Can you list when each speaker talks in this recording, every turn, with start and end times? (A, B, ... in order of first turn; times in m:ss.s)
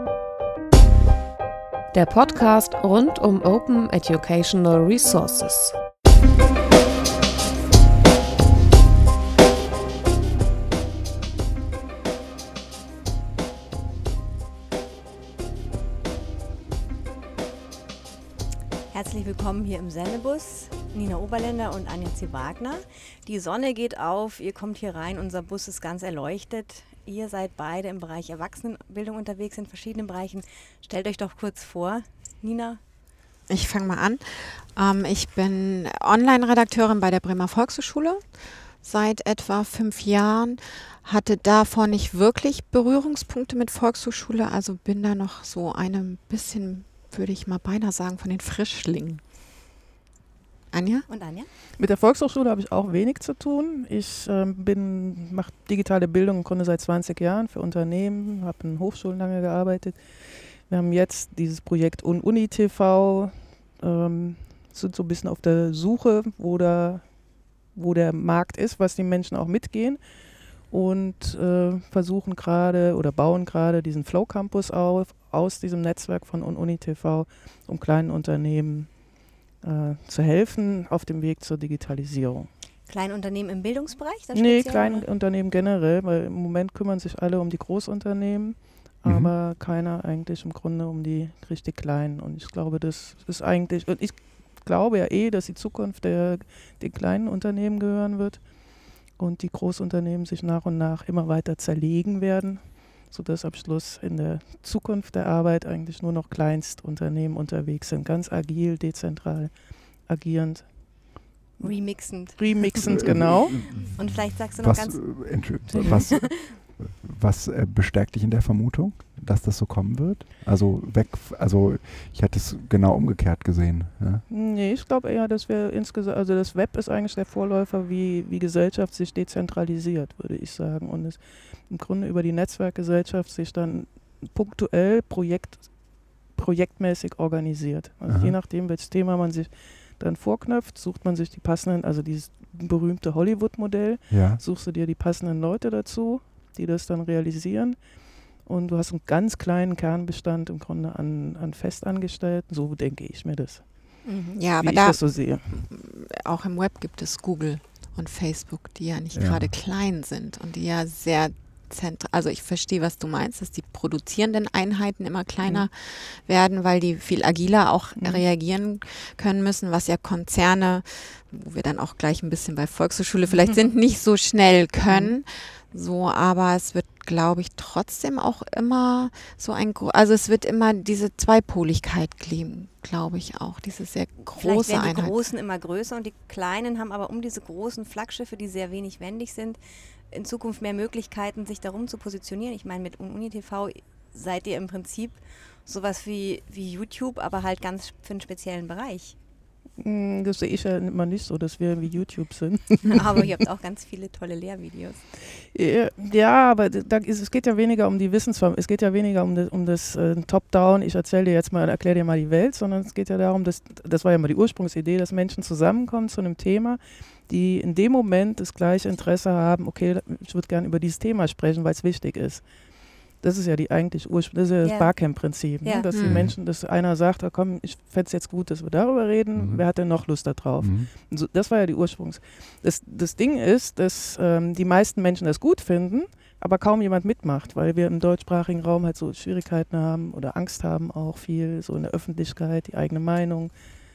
0:01.9-0:05.8 A
0:18.9-0:32.8 B
0:33.5-0:38.2 C
0:38.8-0:49.2 C
0:50.7-0:51.1 C
0:51.1-0:51.5 B
0:51.8-1:00.0 D
1:00.6-1:07.2 D
1:07.7-1:10.0 D
1:10.6-1:19.0 D
1:19.6-1:22.5 D
1:22.9-1:25.0 B
1:24.4-1:38.5 D
1:29.0-1:29.3 E
1:39.1-1:53.7 D
1:51.6-1:56.5 B
1:52.9-2:04.2 E
1:55.7-1:56.0 D
2:04.3-2:27.9 D
2:18.1-2:18.4 E
2:24.1-2:24.4 E
2:28.4-2:34.0 D
2:34.0-2:34.4 B
2:34.4-2:35.0 C
2:34.6-2:35.6 D
2:35.5-3:05.1 C
2:39.1-2:39.5 E
2:48.0-2:48.2 D
2:54.9-2:55.1 D
3:04.3-3:09.6 B
3:10.1-3:19.2 B
3:19.8-3:23.1 D
3:22.9-3:25.0 B
3:25.5-3:42.5 D
3:43.1-4:03.5 D
3:44.6-3:45.9 B
3:45.9-3:46.2 C
3:46.0-3:46.4 E
3:49.4-3:49.6 E
3:50.6-3:50.9 E